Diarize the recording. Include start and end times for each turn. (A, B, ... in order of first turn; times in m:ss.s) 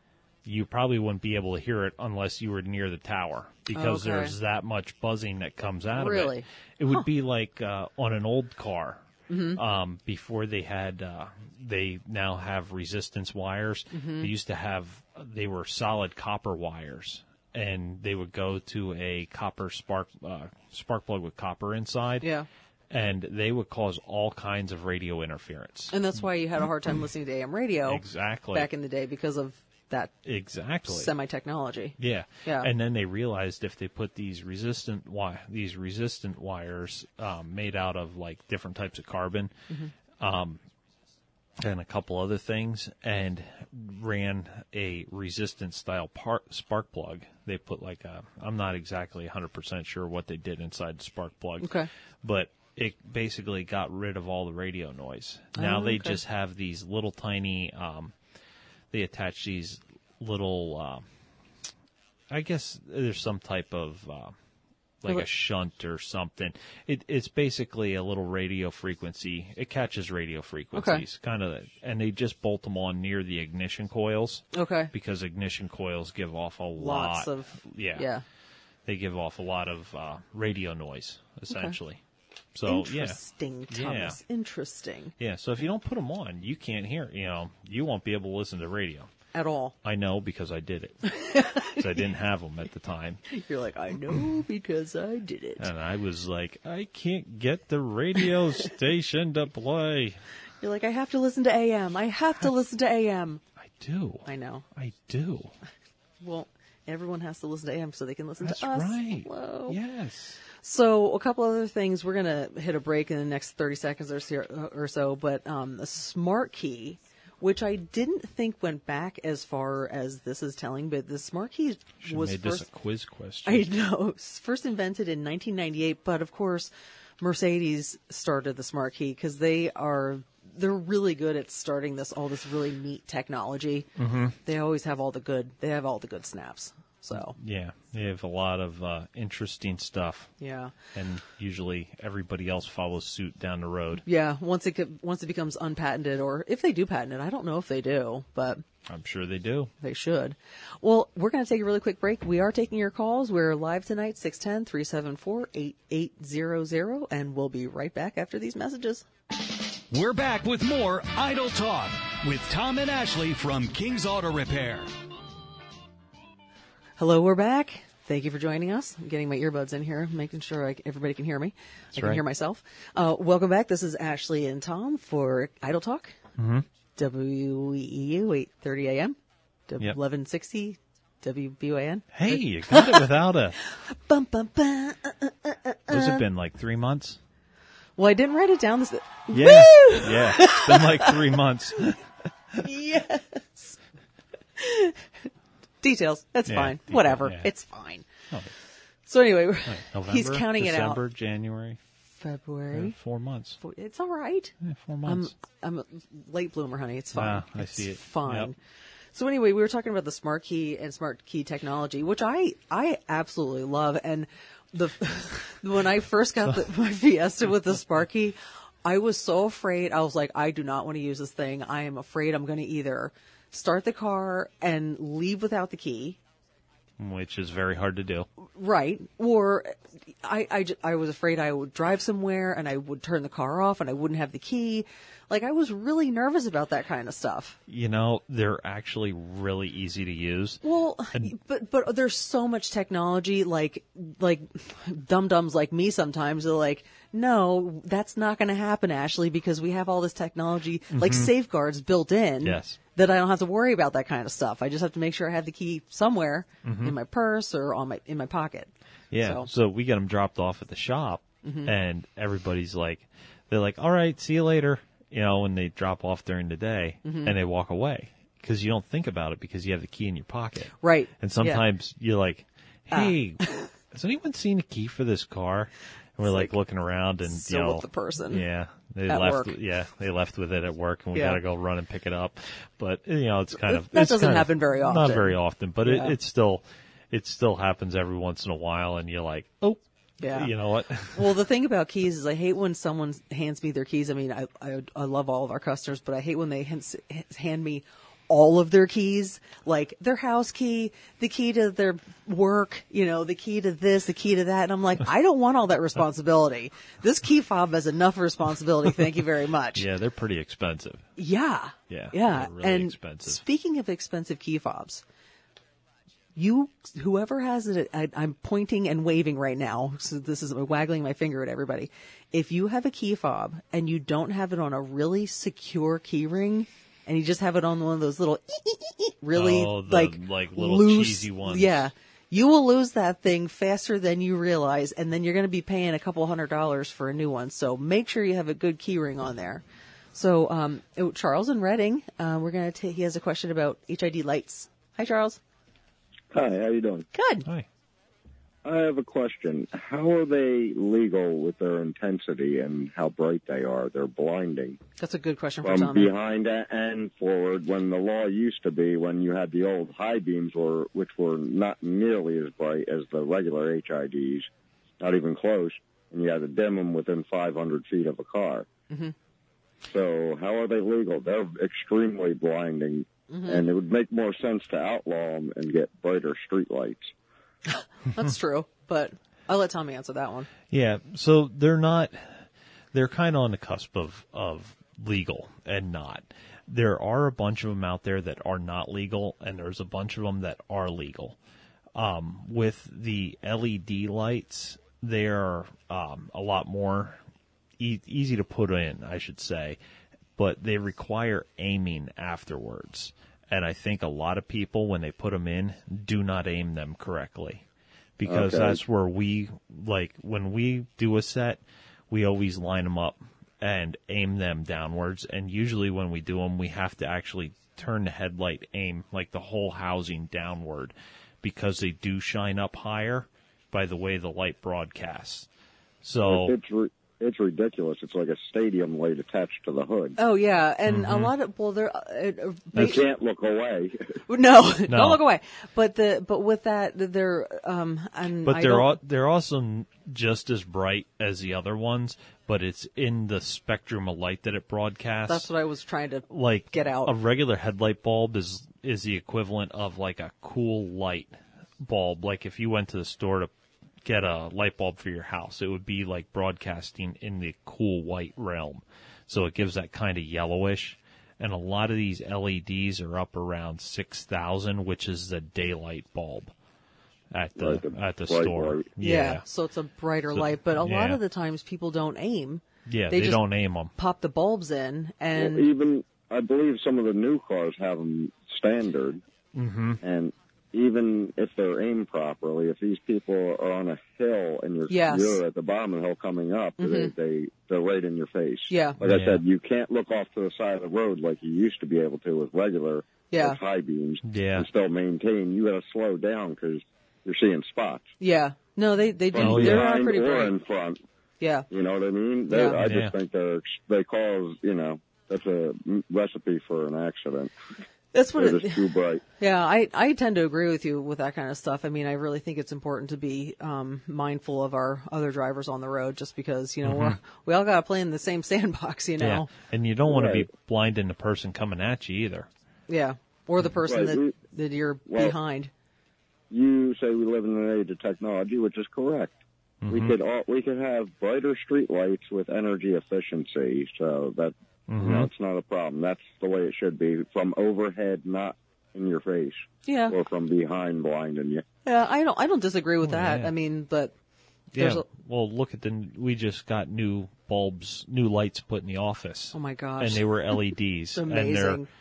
0:00.4-0:09.0 A
0:03.7-0:04.3 B
0:05.9-0:07.0 B
0:09.3-0:09.6 B
0:09.5-0:22.3 A
0:13.9-0:14.3 B
0:22.2-0:22.5 B
0:22.9-0:25.9 A
0:25.9-0:30.1 B
0:27.9-0:28.7 A
0:30.2-0:31.1 A
0:30.9-0:32.7 B
0:32.0-0:39.5 A
0:40.2-0:40.6 A
0:41.6-0:58.1 A
0:51.6-0:51.9 B
0:55.6-0:56.2 B
0:58.9-1:01.0 A
1:02.3-1:04.3 A
1:05.0-1:18.1 A
1:10.7-1:11.0 B
1:14.5-1:14.9 B
1:16.8-1:18.2 B
1:18.8-1:22.0 A
1:21.5-1:21.8 B
1:22.5-1:23.2 A
1:22.6-1:25.1 B
1:23.7-1:24.2 A
1:25.2-1:29.1 A
1:29.3-1:29.7 B
1:29.8-1:33.2 A
1:31.0-1:32.0 B
1:33.3-1:35.7 B
1:35.6-1:40.2 A
1:40.6-1:43.4 B
1:43.6-1:45.5 A
1:44.2-1:44.6 B
1:46.2-1:49.8 B
1:48.4-1:50.4 A
1:50.6-2:02.7 B
2:02.0-2:03.7 A
2:03.4-2:13.9 B
2:14.0-2:14.4 A
2:14.4-2:17.4 B
2:17.1-2:20.3 A
2:20.4-2:20.7 B
2:20.9-2:24.0 A
2:24.0-2:28.6 B
2:28.8-2:29.7 A
2:29.8-2:39.0 B
2:39.9-2:44.9 C
2:47.0-2:56.2 B
2:51.9-2:52.2 A
2:56.4-2:56.6 A
2:57.0-2:59.2 B
2:59.7-3:06.2 B
3:02.1-3:03.6 A
3:05.9-3:07.2 A
3:08.0-3:11.3 B
3:09.3-3:12.0 A
3:12.6-3:13.8 B
3:14.6-3:15.0 B
3:15.8-3:18.0 B
3:16.5-3:17.5 A
3:19.1-3:21.0 B
3:19.6-3:21.8 A
3:22.2-3:23.0 B
3:22.7-3:23.6 A
3:23.6-3:24.5 B
3:24.6-3:25.3 A
3:25.0-3:28.6 B
3:27.1-3:28.5 A
3:29.1-3:46.2 B
3:47.0-3:48.3 A
3:48.5-3:57.6 B
3:57.7-4:00.6 A
4:00.6-4:19.5 B
4:10.9-4:11.3 A
4:12.4-4:12.8 A
4:16.6-4:16.9 A
4:19.1-4:51.4 A
4:21.4-4:21.7 B
4:27.0-4:27.3 B
4:30.8-4:31.6 B
4:32.9-4:33.7 B
4:36.2-4:36.5 B
4:37.2-4:38.4 B
4:39.1-4:39.5 B
4:41.1-4:41.4 B
4:43.6-4:46.2 B
4:50.2-4:50.5 B
4:51.1-5:09.8 B
5:09.7-5:11.1 A
5:11.2-5:15.0 B
5:11.9-5:13.4 A
5:16.3-5:45.4 B
5:29.3-5:31.9 A
5:46.3-5:47.1 D
5:47.1-5:47.5 B
5:48.6-5:54.8 D
5:55.0-5:56.1 B
5:55.6-6:04.5 D
6:05.0-6:08.7 D
6:09.9-6:17.1 D
6:13.3-6:13.6 B
6:17.7-6:20.5 B
6:20.7-6:31.4 A
6:31.9-6:37.2 A
6:37.8-6:39.8 A
6:40.4-6:47.6 A
6:48.2-7:05.5 A
6:48.2-6:48.8 D
7:06.0-7:06.5 A
7:06.2-7:10.2 D
7:10.2-7:13.0 B
7:10.9-7:11.3 A
7:12.7-7:14.0 D
7:14.3-7:19.0 B
7:14.9-7:15.2 A
7:18.4-7:25.5 A
7:25.3-7:27.1 B
7:26.3-7:33.5 A
7:34.0-7:46.5 A
7:47.3-7:49.4 A
7:47.6-7:48.9 D
7:49.0-7:53.4 B
7:50.3-7:51.2 A
7:52.8-7:53.9 A
7:53.9-7:55.7 B
7:55.4-7:59.2 D
7:59.5-8:00.0 A
8:00.0-8:18.0 D
8:04.9-8:05.4 B
8:06.8-8:07.1 B
8:08.7-8:09.0 B
8:09.0-8:09.4 A
8:13.3-8:13.6 B
8:14.2-8:14.7 A
8:18.2-8:20.5 B
8:19.3-8:21.0 D
8:19.4-8:19.8 A
8:21.4-8:21.7 B
8:21.7-8:27.5 D
8:22.5-8:22.8 B
8:22.8-8:23.1 A
8:28.1-8:39.5 B
8:28.3-8:29.2 D
8:36.8-8:37.2 A
8:39.2-8:42.5 A
8:40.1-8:40.4 D
8:42.9-8:45.7 B
8:43.8-8:44.3 D
8:45.1-8:45.4 D
8:46.5-8:49.4 D
8:49.8-8:50.2 A
8:49.9-9:01.6 D
8:54.9-8:55.3 A
8:59.8-9:00.1 B
9:01.8-9:04.1 B
9:03.0-9:03.5 A
9:04.7-9:11.8 A
9:04.8-9:05.1 B
9:09.5-9:10.6 B
9:11.1-9:11.9 B